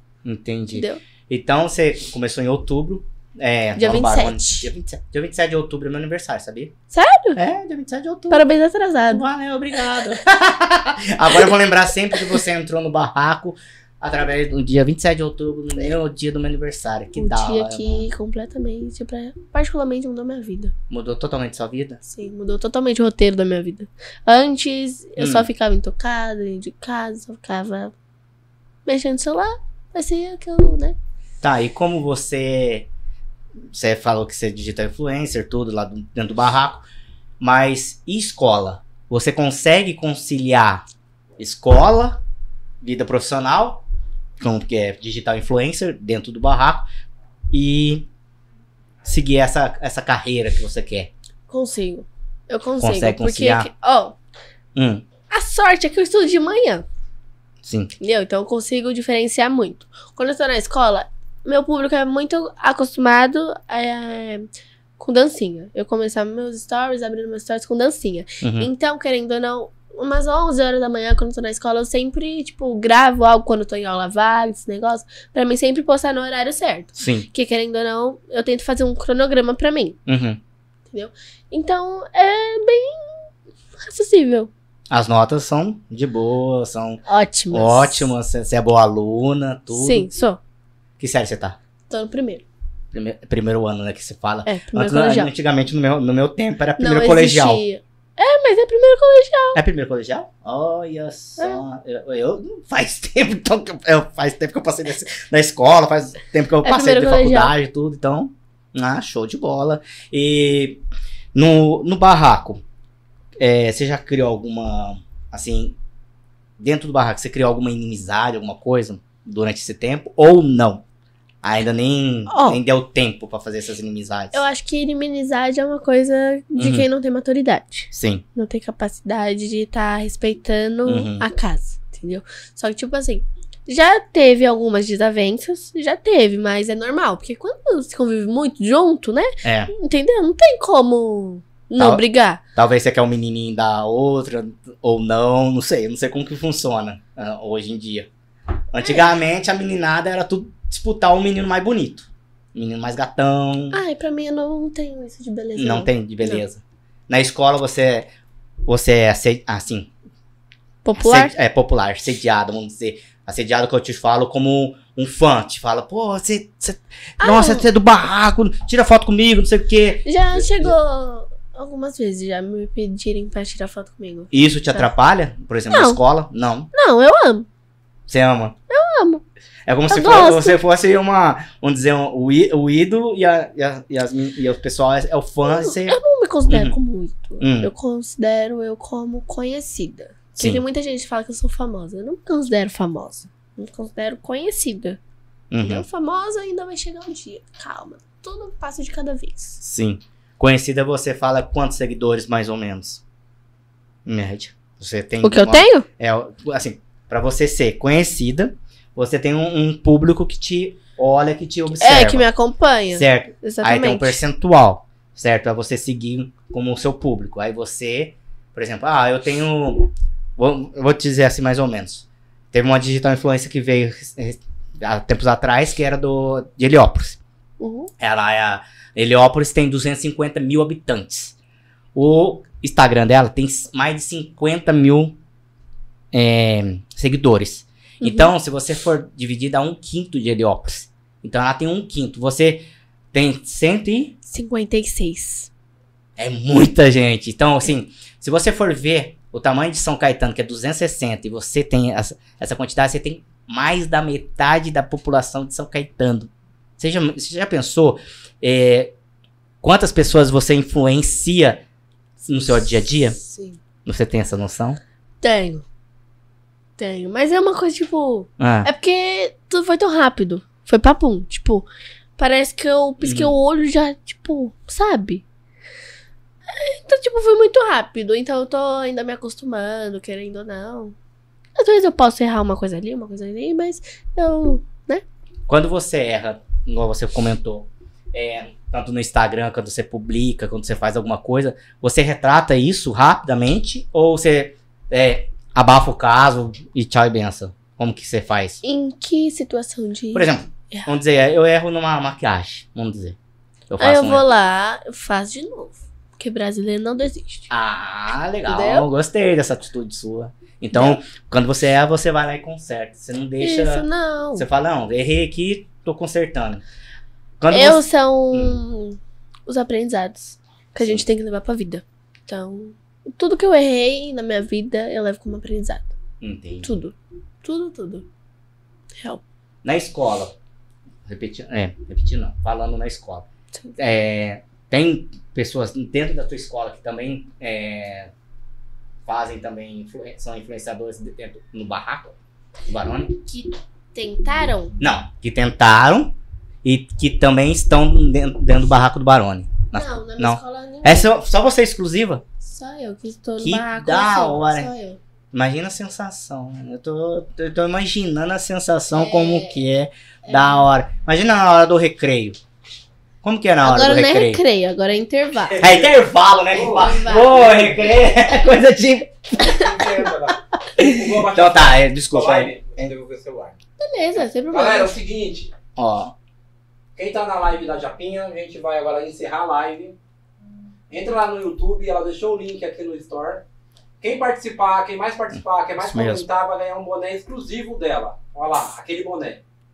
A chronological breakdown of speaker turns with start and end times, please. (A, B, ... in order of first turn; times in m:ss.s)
0:00.2-0:06.7 A
0:00.7-0:01.0 B
0:03.8-0:04.7 B
0:06.9-0:07.4 B
0:07.4-0:08.4 A
0:08.3-0:09.2 B
0:09.1-0:18.0 A
0:17.2-0:20.7 B
0:20.9-0:22.0 A
0:22.0-0:27.9 B
0:25.2-0:25.5 A
0:28.9-0:31.0 B
0:31.4-0:32.9 A
0:33.7-0:36.8 A
0:37.4-0:40.8 A
0:41.4-0:42.2 A
0:42.8-0:43.8 A
0:44.4-0:46.9 A
0:47.5-0:48.1 A
0:49.0-0:51.1 A
0:51.5-0:54.2 B
0:52.8-0:53.7 A
0:54.8-0:55.0 A
0:55.3-0:56.9 B
0:57.6-0:57.9 A
0:58.0-1:04.5 B
1:05.0-1:20.0 B
1:08.4-1:08.7 A
1:17.0-1:17.3 A
1:20.1-1:20.4 A
1:20.9-1:24.5 B
1:24.9-1:30.1 A
1:27.1-1:28.1 B
1:29.7-1:30.4 B
1:31.0-1:31.6 A
1:31.9-1:32.4 B
1:32.9-1:37.6 A
1:34.5-1:35.3 B
1:36.8-1:39.6 B
1:39.6-1:50.8 A
1:46.6-1:47.5 B
1:51.4-1:52.6 A
1:53.4-1:55.8 A
1:56.6-2:00.8 A
2:01.4-2:04.4 A
2:02.3-2:02.6 B
2:04.3-2:22.4 B
2:06.6-2:06.9 A
2:07.9-2:08.2 A
2:10.9-2:11.2 A
2:19.4-2:19.7 A
2:21.8-2:22.0 A
2:22.6-2:28.1 A
2:28.7-2:33.8 A
2:33.7-2:36.4 B
2:35.6-2:38.1 A
2:38.7-2:39.9 A
2:40.8-2:41.3 B
2:41.0-2:50.7 A
2:47.2-2:47.6 B
2:50.0-2:54.9 B
2:54.3-2:56.7 A
2:55.7-2:56.0 B
2:56.7-2:57.5 B
2:58.1-2:58.6 A
2:58.7-2:59.2 B
2:59.7-3:06.8 A
2:59.9-3:00.6 B
3:05.5-3:15.0 B
3:07.4-3:07.7 A
3:15.5-3:15.8 A
3:15.6-3:19.6 B
3:19.6-3:23.0 A
3:24.1-3:32.3 A
3:25.2-3:25.8 B
3:31.8-3:34.2 B
3:32.9-3:47.2 A
3:47.6-3:47.9 B
3:48.0-3:51.4 A
3:52.0-3:55.2 A
3:56.1-4:04.2 A
3:58.0-3:58.3 B
4:04.3-4:05.5 B
4:06.2-4:18.9 A
4:19.6-4:21.6 A
4:22.3-4:23.2 A
4:23.2-4:23.6 B
4:23.8-4:24.8 A
4:25.2-4:25.6 B
4:26.8-4:31.7 B
4:28.4-4:28.7 A
4:32.2-4:35.2 B
4:33.0-4:33.3 A
4:36.5-4:41.0 B
4:41.6-4:45.0 B
4:45.5-4:58.6 A
4:58.6-5:00.9 B
5:00.1-5:03.2 A
5:03.7-5:04.2 A
5:03.8-5:07.5 B
5:07.5-5:16.6 A
5:08.5-5:08.9 B
5:10.7-5:11.0 B
5:13.4-5:14.4 B
5:17.4-5:18.6 A
5:17.5-5:25.9 B
5:26.2-5:26.7 A
5:26.6-5:28.1 B
5:29.6-5:30.4 A
5:31.1-5:33.3 A
5:33.8-5:38.1 A
5:39.1-5:42.2 A
5:42.7-5:43.2 A
5:43.2-5:44.8 B
5:44.8-5:52.2 A
5:49.7-5:51.1 B
5:52.4-5:55.0 B
5:53.4-5:54.7 A
5:55.3-6:02.4 A
5:58.9-5:59.6 B
6:00.3-6:00.6 B
6:03.2-6:04.4 A
6:03.6-6:05.6 B
6:05.6-6:09.5 A
6:06.5-6:08.0 C
6:06.8-6:07.3 B
6:09.4-6:13.6 C
6:11.3-6:12.9 A
6:13.8-6:15.0 B
6:14.5-6:15.5 C
6:15.8-6:16.1 A
6:17.0-6:20.0 C
6:20.9-6:23.4 C
6:24.0-6:29.4 C
6:25.8-6:26.3 A